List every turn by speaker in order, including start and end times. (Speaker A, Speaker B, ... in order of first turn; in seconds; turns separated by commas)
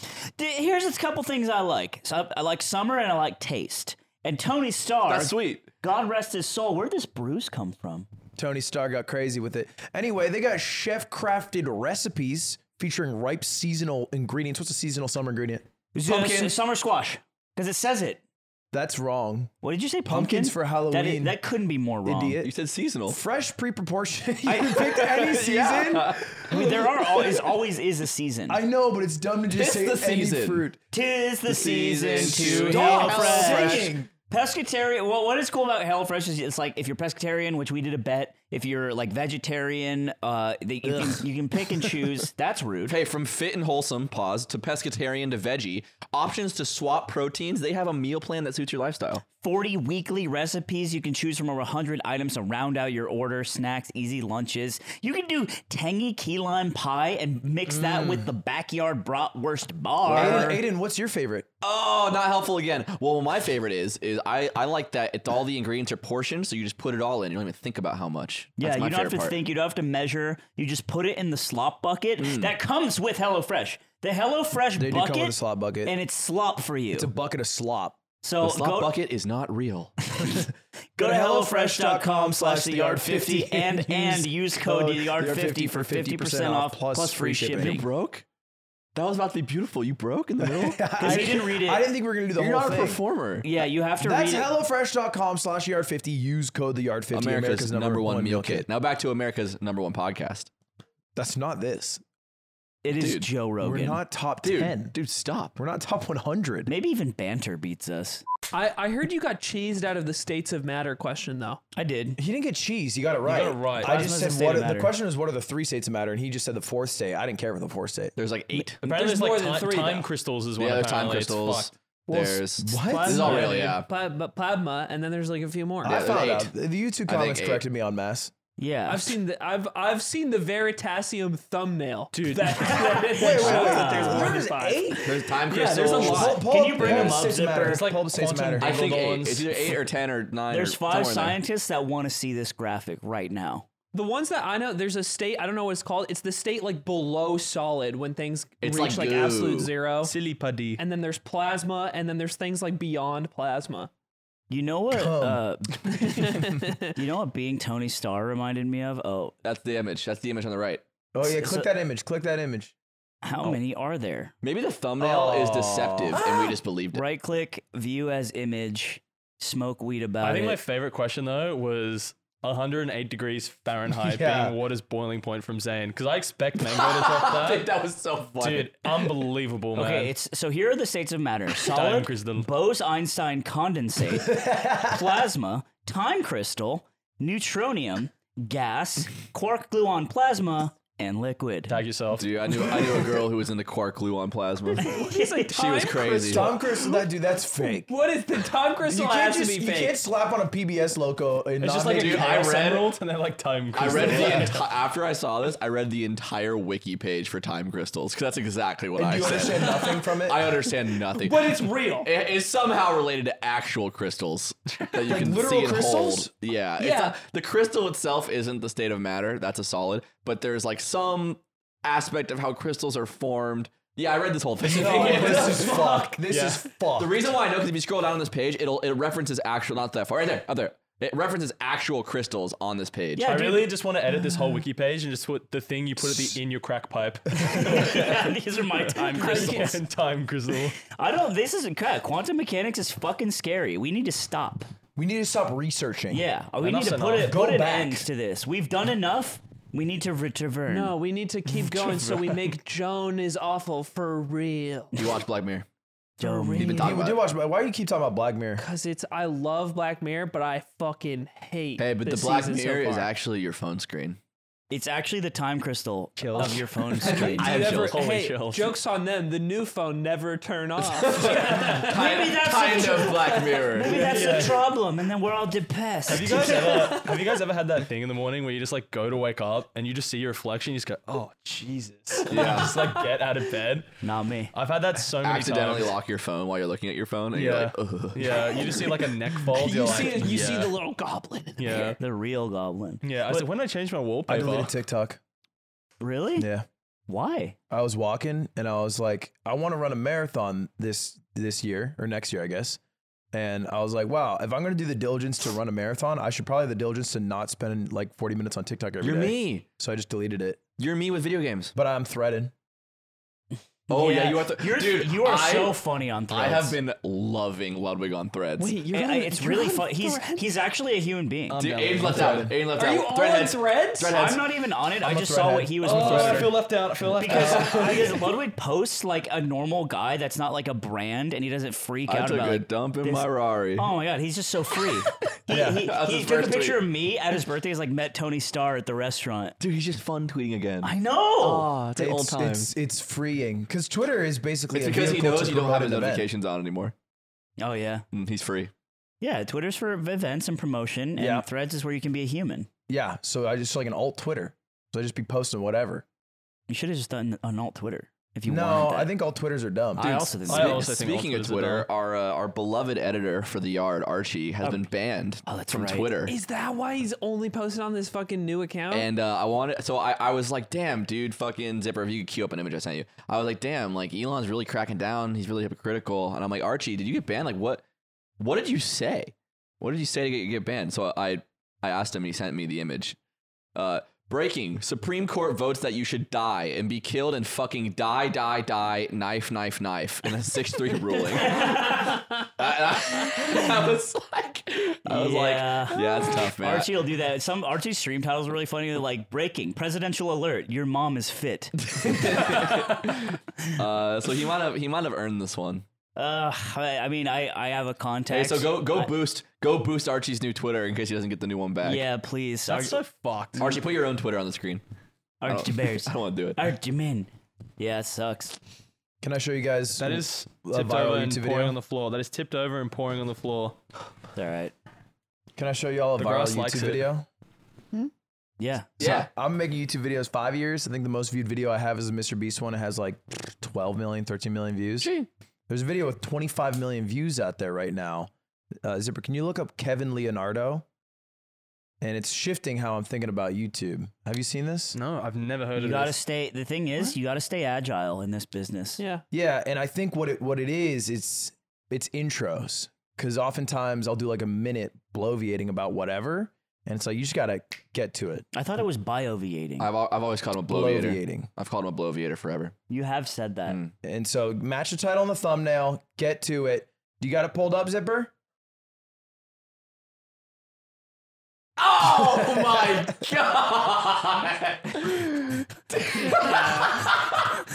Speaker A: 0.3-8.1, Speaker B: 5.0-5.7, Speaker C: 8.3-15.6, Speaker A: 15.9-18.2, Speaker B: 16.0-16.5, Speaker C: 18.7-19.5, Speaker A: 19.6-22.4, Speaker C: 20.1-21.4, Speaker C: 22.0-22.5, Speaker B: 22.4-23.2, Speaker C: 23.1-26.9, Speaker B: 24.5-27.3, Speaker A: 26.5-28.6, Speaker C: 28.5-30.8, Speaker B: 29.5-30.7, Speaker A: 30.9-43.0, Speaker B: 31.5-33.9, Speaker C: 32.2-34.1, Speaker B: 40.9-42.1, Speaker B: 42.9-49.2, Speaker A: 49.4-60.6, Speaker C: 57.7-58.3, Speaker B: 60.0-60.5, Speaker C: 60.1-61.5, Speaker B: 61.6-69.4, Speaker A: 68.6-77.1, Speaker B: 72.2-72.5, Speaker C: 74.7-75.9, Speaker C: 76.9-78.0, Speaker A: 78.2-78.9, Speaker B: 78.4-80.0, Speaker A: 81.0-87.8, Speaker C: 81.0-87.8, Speaker B: 87.6-88.2, Speaker B: 88.9-91.3, Speaker C: 90.4-93.0, Speaker A: 91.0-91.9, Speaker B: 92.3-93.5, Speaker A: 93.4-94.5, Speaker C: 94.0-98.7, Speaker B: 97.1-100.5, Speaker C: 101.2-102.0, Speaker A: 102.8-104.0, Speaker B: 102.9-103.3, Speaker C: 103.6-104.9, Speaker B: 104.4-105.5, Speaker C: 105.5-106.7, Speaker A: 106.7-108.2, Speaker D: 108.5-111.6, Speaker A: 111.7-112.2, Speaker C: 112.2-118.1, Speaker E: 113.2-114.1, Speaker A: 113.8-114.9, Speaker B: 118.2-118.8, Speaker D: 118.8-120.1, Speaker E: 118.8-121.7, Speaker B: 120.6-123.9, Speaker A: 122.1-123.7, Speaker C: 122.6-123.7, Speaker D: 123.2-126.0, Speaker B: 125.8-126.5, Speaker C: 125.8-128.3, Speaker B: 127.1-127.6, Speaker A: 128.6-129.1, Speaker D: 128.9-135.4, Speaker E: 132.1-132.9, Speaker A: 132.6-134.4, Speaker C: 133.1-135.0, Speaker B: 135.0-136.3, Speaker E: 135.5-139.8, Speaker A: 135.9-137.8, Speaker C: 136.0-138.8, Speaker B: 138.6-141.4, Speaker A: 140.5-143.7, Speaker D: 143.9-150.1, Speaker B: 148.6-149.7, Speaker E: 150.0-150.8, Speaker D: 150.8-153.9, Speaker A: 154.5-156.2, Speaker C: 154.9-155.4, Speaker D: 155.9-156.9, Speaker A: 156.9-159.3, Speaker B: 159.4-160.8, Speaker C: 161.1-162.7, Speaker A: 161.2-161.7, Speaker A: 163.2-164.3, Speaker B: 164.4-167.0, Speaker C: 165.0-166.5, Speaker A: 166.9-170.6, Speaker E: 170.2-177.7, Speaker C: 173.9-174.6, Speaker B: 176.6-179.1, Speaker E: 178.4-180.1, Speaker A: 179.7-191.8, Speaker E: 181.6-182.5, Speaker C: 184.1-185.0, Speaker E: 191.7-192.9, Speaker B: 192.1-195.0, Speaker D: 194.8-197.0, Speaker A: 194.8-195.8, Speaker B: 195.5-196.5, Speaker C: 196.3-197.9, Speaker D: 197.6-200.0, Speaker C: 198.8-202.4, Speaker E: 201.6-204.7, Speaker B: 201.9-202.9, Speaker B: 203.7-225.8, Speaker C: 204.1-204.4, Speaker C: 208.9-210.6, Speaker D: 211.1-212.1, Speaker C: 215.0-216.3, Speaker D: 216.8-217.2, Speaker C: 224.6-227.3, Speaker E: 224.7-227.0, Speaker B: 227.0-233.3, Speaker A: 233.2-233.7, Speaker E: 233.2-240.8, Speaker C: 236.0-236.4, Speaker A: 237.4-239.8, Speaker D: 239.2-239.7, Speaker A: 240.8-244.7, Speaker C: 244.9-246.3, Speaker A: 246.1-250.9, Speaker E: 246.6-247.4, Speaker C: 247.2-248.1, Speaker D: 250.7-255.1, Speaker E: 251.7-252.3, Speaker B: 254.9-255.7, Speaker D: 256.2-256.9, Speaker A: 256.2-256.9, Speaker B: 256.6-257.2, Speaker C: 256.7-258.6, Speaker D: 258.6-263.1, Speaker B: 261.8-264.2, Speaker A: 264.7-267.5, Speaker E: 266.2-268.8, Speaker D: 266.4-272.1, Speaker B: 267.4-267.9, Speaker B: 270.8-274.3, Speaker E: 271.2-271.9, Speaker A: 271.8-276.9, Speaker D: 272.7-273.4, Speaker E: 273.9-274.6, Speaker E: 276.1-283.9, Speaker D: 276.6-277.1, Speaker D: 282.2-283.0, Speaker B: 282.3-282.8, Speaker A: 284.0-284.5, Speaker E: 284.5-286.0, Speaker B: 285.2-289.0, Speaker E: 287.3-290.7, Speaker D: 288.4-292.0, Speaker E: 291.6-292.0, Speaker A: 292.0-293.0, Speaker E: 293.0-294.8, Speaker C: 294.3-295.2, Speaker A: 296.0-296.5, Speaker C: 296.4-296.7, Speaker A: 297.1-297.6, Speaker C: 297.7-302.8, Speaker C: 303.3-310.6, Speaker B: 309.0-309.6, Speaker B: 310.8-311.7, Speaker C: 311.7-312.5, Speaker A: 313.9-316.8, Speaker B: 313.9-318.8, Speaker D: 318.6-320.5, Speaker A: 318.9-321.6, Speaker E: 321.5-322.6, Speaker B: 321.6-324.5, Speaker D: 322.7-324.2, Speaker A: 324.0-326.5, Speaker C: 325.0-326.5, Speaker E: 325.8-327.9, Speaker B: 327.2-328.3, Speaker A: 327.2-339.6, Speaker B: 332.1-333.9, Speaker C: 335.5-335.9, Speaker B: 335.7-336.9, Speaker B: 339.6-342.7, Speaker A: 340.8-341.7, Speaker C: 341.9-346.3, Speaker B: 344.7-346.9, Speaker A: 347.6-348.0, Speaker B: 348.1-348.7, Speaker A: 349.2-352.7, Speaker C: 351.2-351.5, Speaker C: 352.9-356.0, Speaker A: 356.7-359.1, Speaker C: 358.5-360.1, Speaker A: 359.9-361.1, Speaker B: 360.0-366.4, Speaker E: 360.5-361.9, Speaker A: 365.4-366.1, Speaker D: 366.3-369.1, Speaker B: 368.9-377.8, Speaker B: 378.4-383.2, Speaker B: 383.7-396.9, Speaker D: 391.1-392.5, Speaker A: 391.5-392.2, Speaker A: 395.1-402.1, Speaker B: 401.8-405.8, Speaker E: 402.5-402.9, Speaker A: 406.1-409.1, Speaker B: 408.3-412.0, Speaker A: 411.8-413.0, Speaker E: 412.6-413.8, Speaker B: 413.6-414.8, Speaker A: 415.4-418.6, Speaker B: 415.4-416.7, Speaker C: 419.2-421.8, Speaker E: 420.0-423.8, Speaker A: 424.3-424.7, Speaker C: 425.6-427.3, Speaker E: 426.2-427.1, Speaker A: 428.6-428.9, Speaker B: 429.0-429.3, Speaker C: 429.0-435.1, Speaker B: 435.0-435.3, Speaker C: 435.7-438.3, Speaker C: 438.8-440.8, Speaker C: 442.0-445.0, Speaker E: 444.9-446.2, Speaker A: 445.8-449.0, Speaker D: 449.0-449.2, Speaker C: 449.3-458.4, Speaker A: 458.5-459.9, Speaker B: 459.8-462.8, Speaker C: 460.6-461.5, Speaker A: 462.9-463.8, Speaker B: 463.7-463.9, Speaker C: 464.0-468.3, Speaker B: 471.8-477.4, Speaker C: 472.4-473.0, Speaker D: 476.3-477.1